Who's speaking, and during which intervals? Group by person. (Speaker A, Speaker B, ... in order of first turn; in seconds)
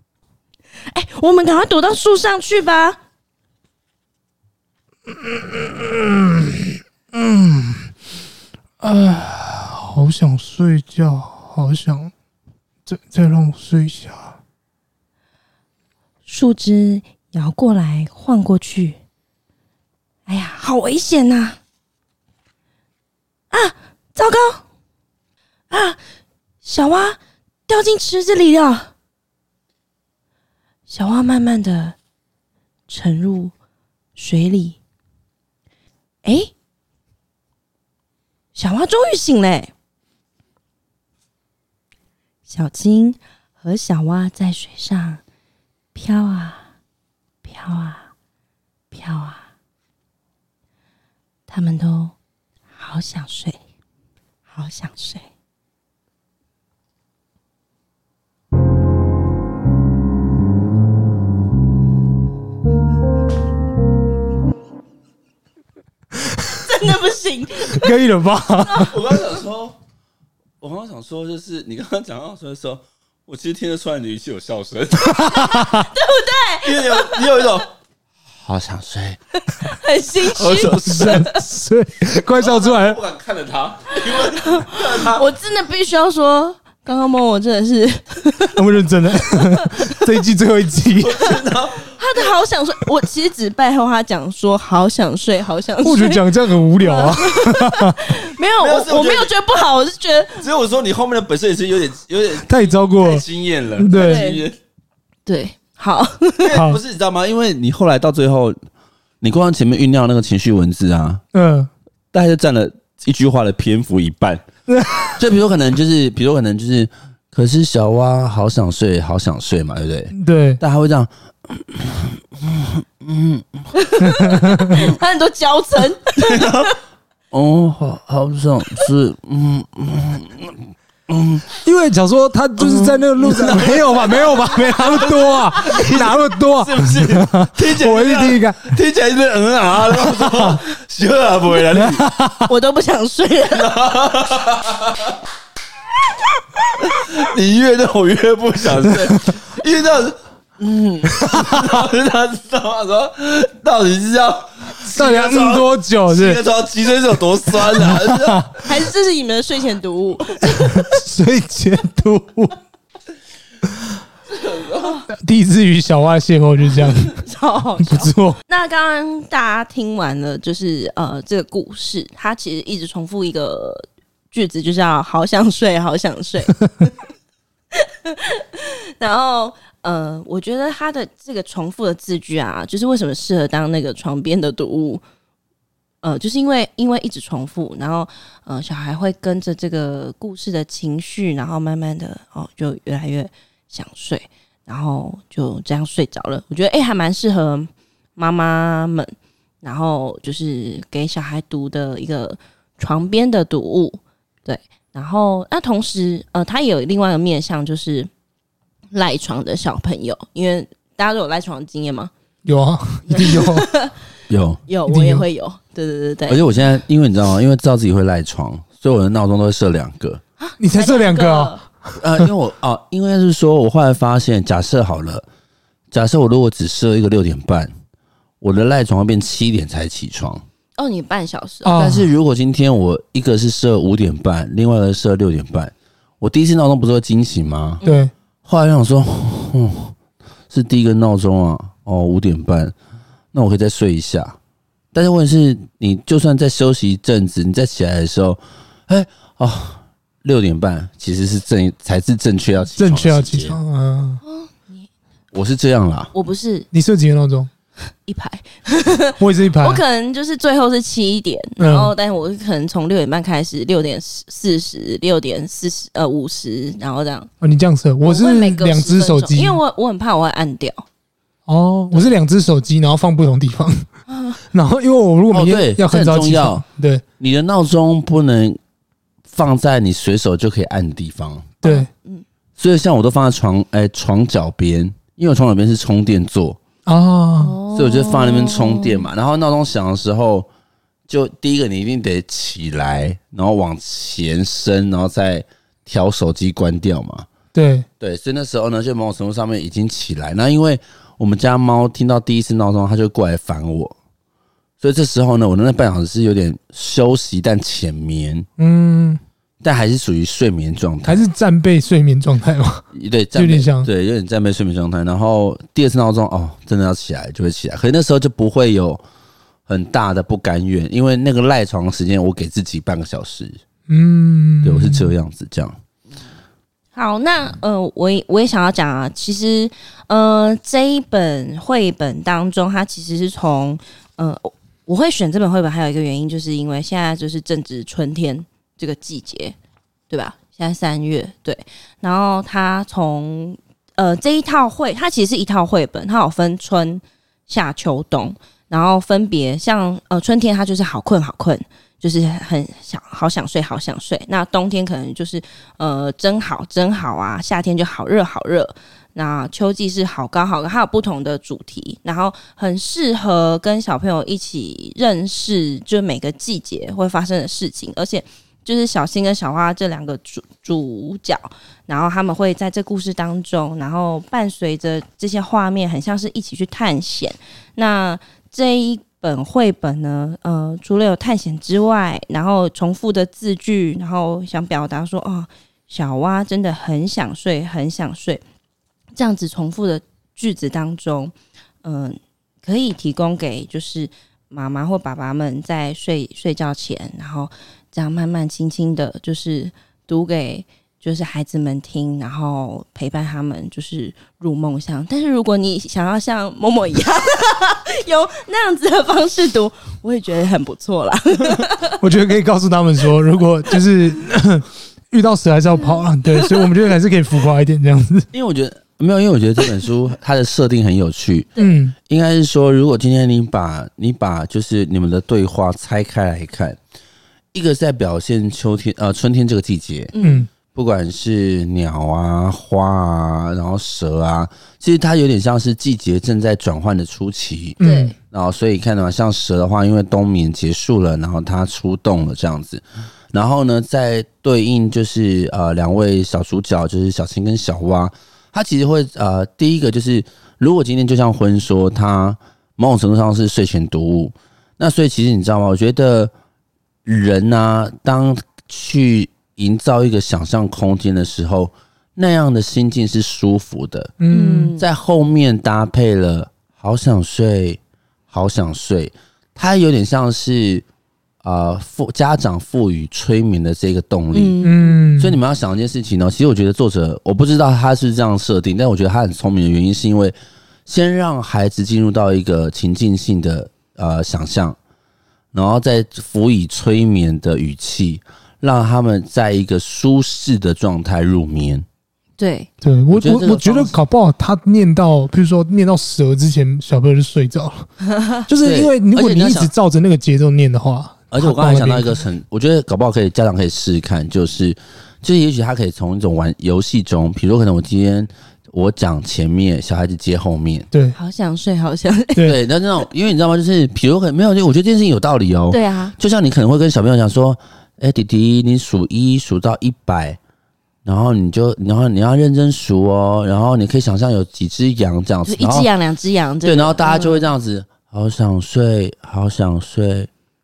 Speaker A: 0.9-3.0, 16.2-19.0, 20.3-21.6, 23.5-24.6, 25.7-26.0, 26.6-28.9, 30.9-32.0, 32.9-33.5, 34.2-34.8, 36.2-36.5, 38.5-39.7, 42.5-45.2, 46.0-46.7, 47.4-48.1, 48.9-49.5, 51.5-52.1, 52.8-53.6, 54.5-55.2, 66.6-68.0, 68.6-69.0, 75.2-77.6, 79.5-81.4, 84.2-88.6, 91.9-100.5, 103.9-104.5, 105.2-106.6, 123.8-126.7, 142.5-143.7, 158.6-160.7, 164.7-165.1, 167.0-176.9, 178.1-185.0, 186.0-208.1, 208.9-212.1, 213.1-214.0, 214.7-216.4, 220.4-221.6, 230.8-231.9, 237.8-238.1, 254.2-254.9, 256.1-256.7, 257.9-267.3, 268.0-270.9, 274.1-274.4, 281.6-282.2, 287.4-289.1, 326.9-339.6, 340.1-388.4, 389.1-412.0, 415.8-416.8, 430.1-430.5, 437.8-438.1, 464.3-464.8, 474.3-475.0, 492.4-492.7, 511.1-513.0, 515.7-516.1, 525.5-527.5
Speaker B: 5.1-7.9, 8.8-12.1, 12.9-14.4, 67.8-69.0, 75.2-75.7, 80.6-83.0, 88.6-91.2, 95.8-98.0, 102.5-103.2, 103.8-104.2, 106.5-106.8, 111.3-111.7, 114.7-115.2, 120.1-120.6, 124.2-124.8, 131.6-138.6, 140.0-140.6, 141.7-142.5, 151.2-151.6, 154.8-156.4, 157.5-158.7, 160.4-162.6, 165.1-167.2, 167.8-168.4, 212.5-213.7, 214.9-215.2, 220.6-221.6, 231.6-232.1, 237.8-238.1, 252.8-254.2, 256.7-257.5, 259.2-259.8, 261.6-261.9, 267.4-269.6, 271.5-273.9, 274.5-277.0, 281.6-281.9, 286.9-287.6, 297.5-297.9, 308.6-309.2, 311.1-313.9, 323.9-325.1, 412.0-418.3, 421.6-421.9, 430.2-430.5, 437.8-438.1, 464.2-464.7, 474.6-475.4, 492.8-497.9, 498.5-502.2, 510.9-511.2
Speaker C: 68.9-69.8, 70.6-75.6, 76.6-77.7, 78.4-79.2, 80.3-81.2, 82.4-85.2, 91.0-91.9, 98.6-99.3, 100.4-104.6, 106.4-108.5, 109.2-111.2, 112.1-114.5, 115.2-123.7, 126.2-126.7, 127.3-131.5, 132.6-142.1, 143.5-145.1, 146.8-158.5, 214.3-214.6, 216.3-220.2, 222.0-225.2, 225.9-227.7, 228.4-230.4, 231.8-237.8, 238.5-239.9, 240.5-242.7, 243.3-244.4, 244.9-253.6, 255.3-256.1, 275.3-276.6, 277.2-278.6, 279.3-281.5, 282.6-286.6, 287.7-290.5, 291.1-297.3, 298.0-304.0, 304.8-308.5, 309.6-311.2, 312.9-319.0, 319.7-323.6, 324.6-325.8, 418.3-421.5, 422.1-426.8, 427.5-430.1, 430.7-437.8, 438.3-442.8, 443.3-456.3, 457.1-464.1, 464.8-467.8, 468.3-470.9, 471.4-474.6, 475.2-480.4, 480.9-484.8, 485.5-491.9, 493.1-493.9, 498.6-499.7, 501.3-510.9, 512.4-520.4, 521.0-525.9, 526.6-530.3